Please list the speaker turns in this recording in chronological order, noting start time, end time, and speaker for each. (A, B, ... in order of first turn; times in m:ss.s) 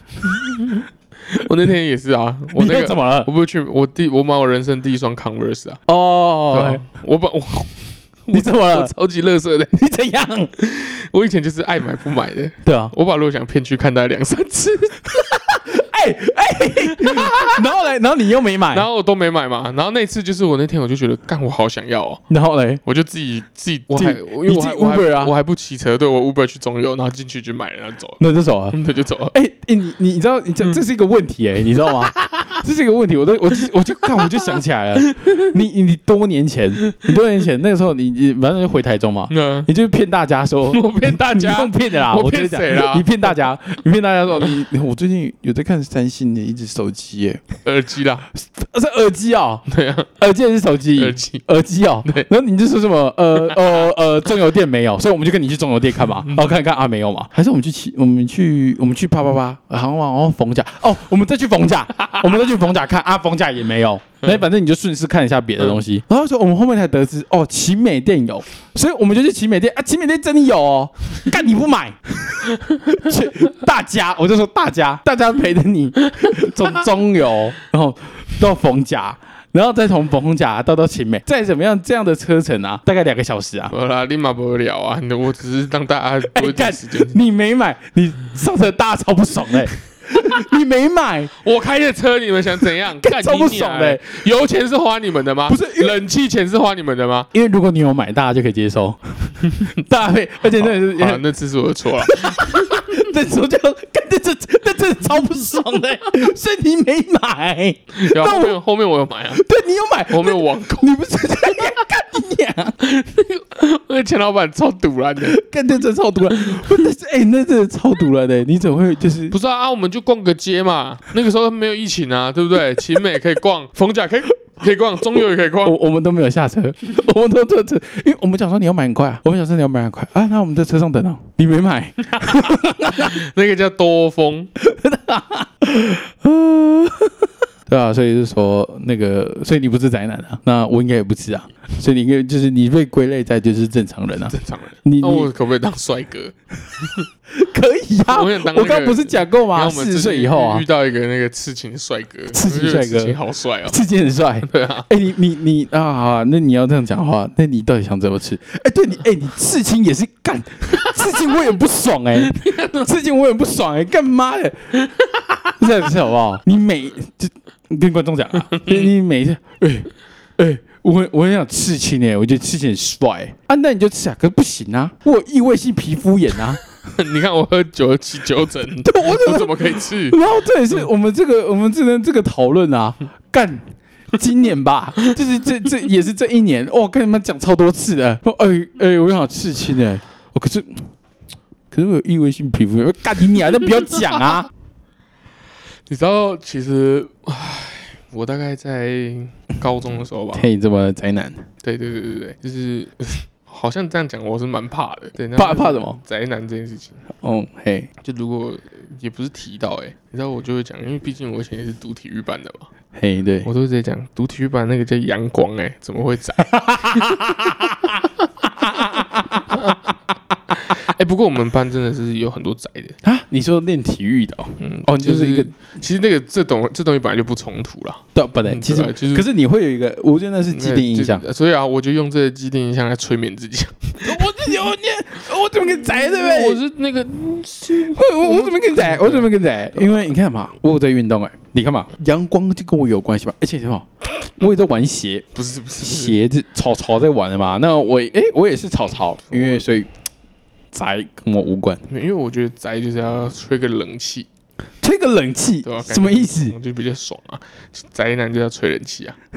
0:00.3-0:05.8 A
0:02.5-0:03.3 B
0:05.9-0:06.8 B
0:06.5-0:09.7 A
0:08.3-0:08.9 B
0:09.7-0:10.5 B
0:10.6-0:15.3 A
0:12.6-0:12.9 B
0:15.3-0:18.8 B
0:16.8-0:17.6 A
0:18.7-0:22.2 A
0:22.3-0:22.8 B
0:22.8-0:28.2 A
0:23.9-0:25.3 B
0:28.2-0:28.8 B
0:28.7-0:29.3 A
0:29.3-0:47.5 B
0:31.8-0:32.5 A
0:35.0-0:35.4 A
0:39.3-0:39.7 A
0:40.7-0:43.1 A
0:47.6-0:48.3 A
0:48.3-0:49.6 B
0:49.7-0:50.1 A
0:50.2-1:23.7 B
0:51.0-0:51.4 A
1:23.7-1:27.2 A
1:26.3-1:31.3 B
1:31.4-1:37.3 A
1:32.9-1:34.0 B
1:35.5-1:36.0 B
1:37.3-1:41.2 B
1:40.5-1:42.9 A
1:42.0-1:48.6 B
1:48.0-1:49.4 A
1:49.3-1:52.8 B
1:50.1-1:50.9 A
1:52.8-1:55.4 A
1:55.2-1:59.3 B
1:56.5-1:56.8 A
1:59.3-2:05.8 A
2:05.6-2:13.2 B
2:12.2-2:14.5 A
2:14.6-2:25.3 B
2:24.3-2:27.0 A
2:27.3-2:30.6 B
2:28.1-2:33.8 A
2:32.3-2:44.8 B
2:34.4-2:34.9 A
2:42.2-2:42.9 A
2:45.6-2:56.6 B
2:48.5-2:48.9 A
2:56.9-3:00.2 A
2:58.8-3:10.9 B
3:11.7-3:14.5 B
3:15.9-3:20.4 A
3:20.3-3:21.4 B
3:21.6-3:27.0 A
3:25.4-3:26.0 B
3:27.2-3:27.9 B
3:28.0-3:32.7 A
3:32.9-3:33.5 B
3:33.4-3:37.3 A
3:36.4-3:38.0 B
3:38.5-3:39.8 B
3:39.5-3:39.8 A
3:40.6-3:43.0 A
3:43.0-3:45.5 B
3:44.6-3:49.3 A
3:48.1-3:51.2 B
3:50.5-3:54.5 A
3:54.0-3:56.6 B
3:55.7-4:00.0 A
3:57.7-4:05.3 B
4:05.3-4:06.2 A
4:05.8-4:09.9 B
4:09.3-4:09.6 A
4:10.7-4:11.8 B
4:11.9-4:14.3 A
4:14.8-4:16.6 B
4:15.6-4:19.2 A